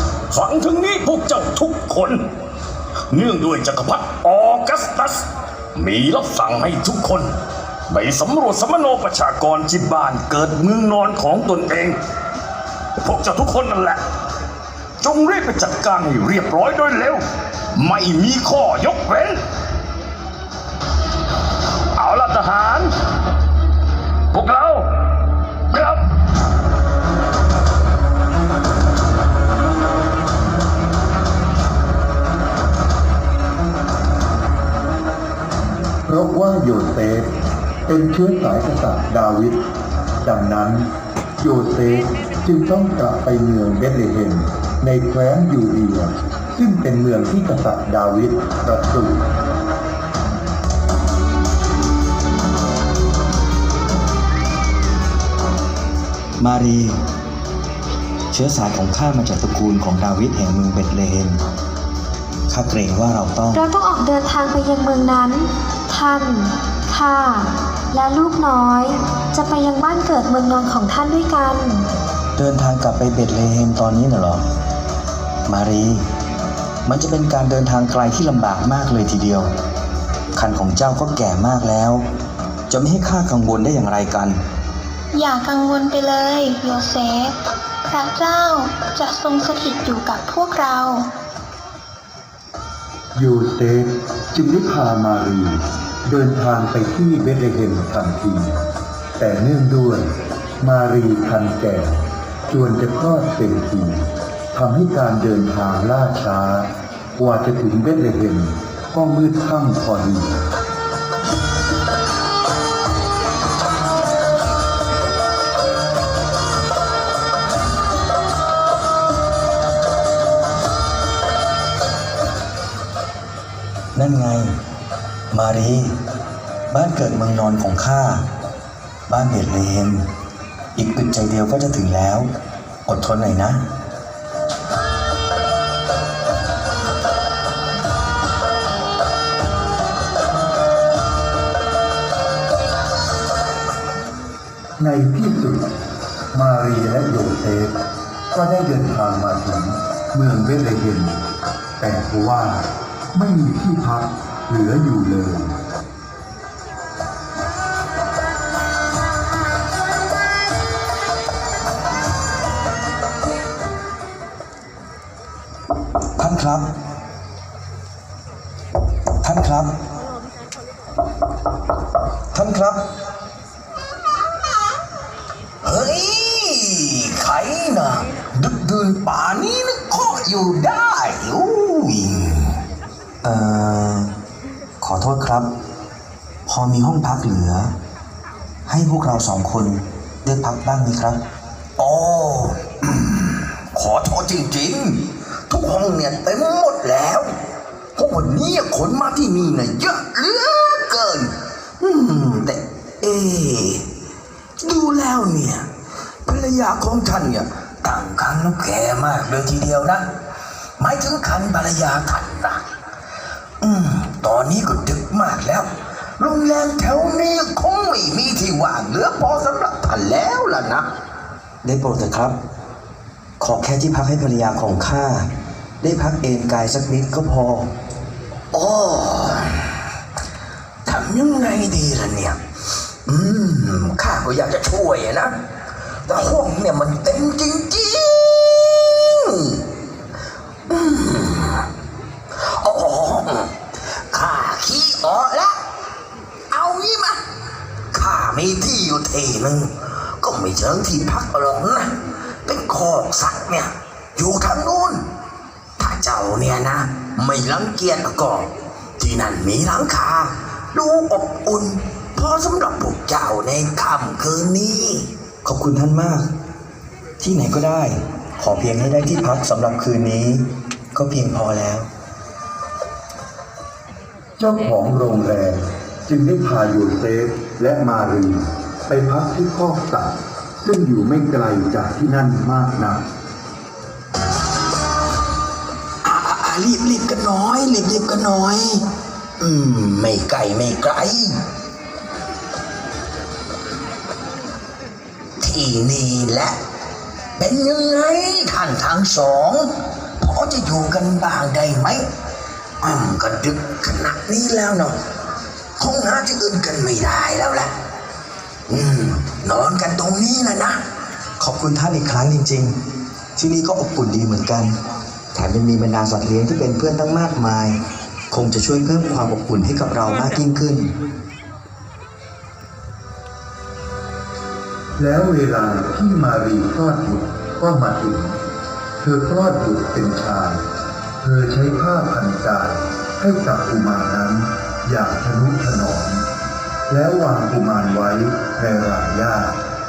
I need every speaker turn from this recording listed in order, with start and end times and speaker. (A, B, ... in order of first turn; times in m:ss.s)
0:00.3-0:02.2 A
0:03.1-0:07.3 A
0:07.9-0:12.0 A
0:13.0-0:14.0 A
0:15.0-0:17.2 A
0:17.7-0:19.4 A
0:22.0-0:22.9 A
0:24.3-0:24.9 A
0:25.7-0:26.0 A
0:36.0-0:37.3 B
0:37.8-0:39.6 B
0:40.2-0:49.2 B
0:56.4-0:57.0 C
0:58.3-1:01.4 C
1:02.5-1:03.6 C
1:03.5-1:11.9 D
1:12.4-1:14.4 C
1:15.5-1:16.0 C
1:16.8-1:19.5 C
1:20.3-1:22.0 C
1:22.7-1:24.4 C
1:25.1-1:27.4 E
1:27.9-1:31.1 E
1:33.1-1:38.6 B
1:39.2-1:42.0 B
1:42.5-1:50.3 B
2:03.9-2:04.5 C
2:05.3-2:06.0 C
2:06.7-2:08.2 C
2:09.1-2:10.0 C
2:10.8-2:12.3 C
2:12.8-2:13.6 C
2:24.8-2:25.7 B
2:26.3-2:27.7 B
2:28.3-2:31.2 B
2:31.8-2:35.6 B
2:46.2-2:46.7 C
2:49.2-2:49.7 C
2:52.3-2:52.8 C
2:55.6-3:02.4 F
3:03.2-3:04.1 C
3:04.8-3:05.5 C
3:06.5-3:07.7 C
3:08.7-3:11.2 C
3:11.8-3:17.3 F
3:18.0-3:23.8 F
3:24.6-3:25.7 F
3:26.2-3:30.1 F
3:30.8-3:32.6 F
3:33.6-3:35.7 F
3:36.2-3:40.9 F
3:41.6-3:42.4 C
3:43.4-3:45.3 C
3:45.8-3:47.7 C
3:48.5-3:49.7 F
3:50.8-3:52.4 F
3:53.0-3:55.3 F
3:56.0-3:59.6 F
4:00.7-4:01.6 F
4:02.4-4:03.5 F
4:04.1-4:05.5 F
4:06.5-4:07.2 F
4:07.9-4:11.9 F
4:12.4-4:15.0 F
4:15.8-4:25.0 F
4:25.4-4:26.3 C
4:27.2-4:31.9 C
4:34.4-4:43.0 B
4:46.0-4:48.8 F
4:49.4-4:51.3 F
4:55.4-4:56.5 F
4:57.4-4:59.7 F
5:00.2-5:02.0 F
5:02.8-5:04.9 F
5:05.8-5:07.7 F
5:08.7-5:10.8 F
5:11.4-5:12.8 C
5:13.3-5:14.8 C
5:15.3-5:17.8 C
5:18.3-5:20.9 C
5:25.0-5:28.4 B
5:29.0-5:30.6 B
5:31.2-5:36.3 B
5:36.9-5:39.6 B